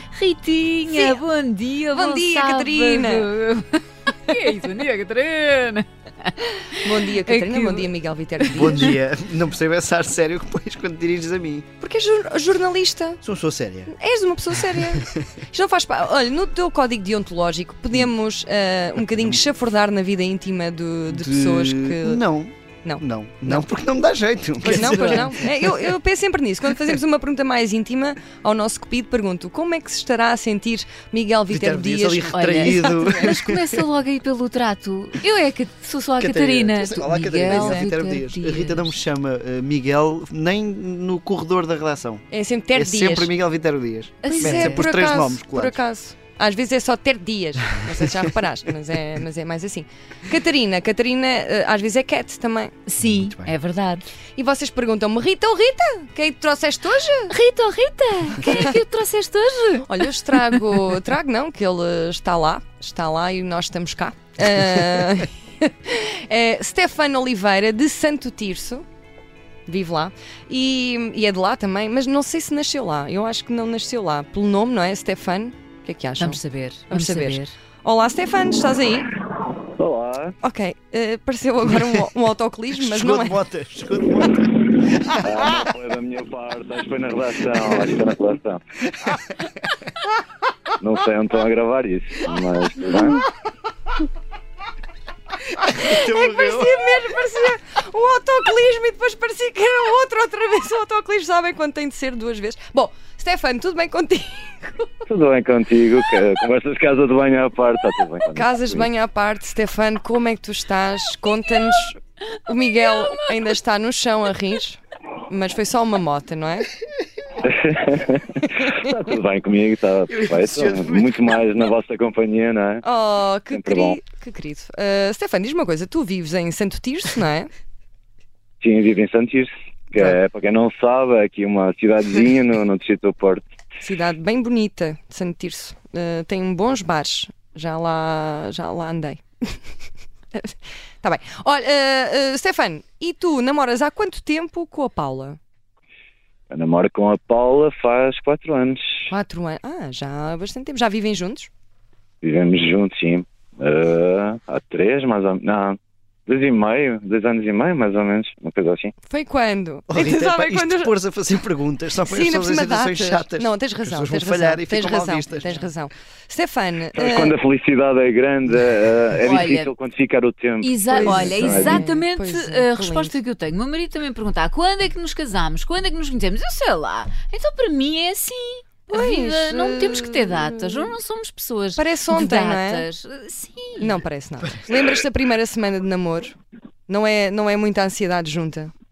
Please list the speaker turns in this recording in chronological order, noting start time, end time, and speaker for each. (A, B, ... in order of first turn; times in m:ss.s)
0:00.1-0:08.9 A
0:00.9-0:01.2 B
0:01.9-0:03.3 B
0:06.8-0:09.0 B
0:08.5-0:11.7 C
0:11.8-0:13.2 B
0:13.2-0:13.9 C
0:13.9-0:22.2 B
0:14.6-0:15.2 C
0:21.1-0:25.9 C
0:22.8-0:23.7 B
0:24.6-0:33.2 B
0:31.5-0:33.8 C
0:32.3-0:39.0 A
0:36.2-0:45.8 C
0:37.5-0:37.8 B
0:42.3-0:43.3 B
0:44.2-0:44.8 A
0:44.3-0:52.7 B
0:52.9-0:54.1 A
0:53.0-0:53.5 C
0:54.4-0:57.3 B
0:57.3-1:00.8 A
0:59.9-1:08.8 B
1:09.7-1:19.1 B
1:16.2-1:17.6 A
1:19.8-1:20.4 D
1:20.4-1:23.4 B
1:22.8-1:25.7 C
1:25.2-1:28.6 D
1:30.8-1:33.3 D
1:35.5-1:37.2 C
1:35.8-1:44.9 B
1:45.1-1:48.9 D
1:48.3-1:56.7 B
1:57.4-2:02.8 D
2:00.1-2:01.4 C
2:02.8-2:07.5 B
2:03.5-2:04.0 D
2:08.6-2:13.4 D
2:13.8-2:19.6 B
2:20.3-2:25.4 B
2:26.5-2:29.1 D
2:29.1-2:31.5 B
2:32.2-2:38.9 D
2:39.1-2:40.9 B
2:39.9-2:45.6 C
2:42.1-2:47.4 B
2:47.0-2:51.8 D
2:49.2-2:49.7 A
2:50.6-3:04.0 A
2:50.9-2:53.2 B
2:58.9-3:00.9 B
3:01.8-3:02.9 B
3:03.8-3:06.4 B
3:06.9-3:08.7 B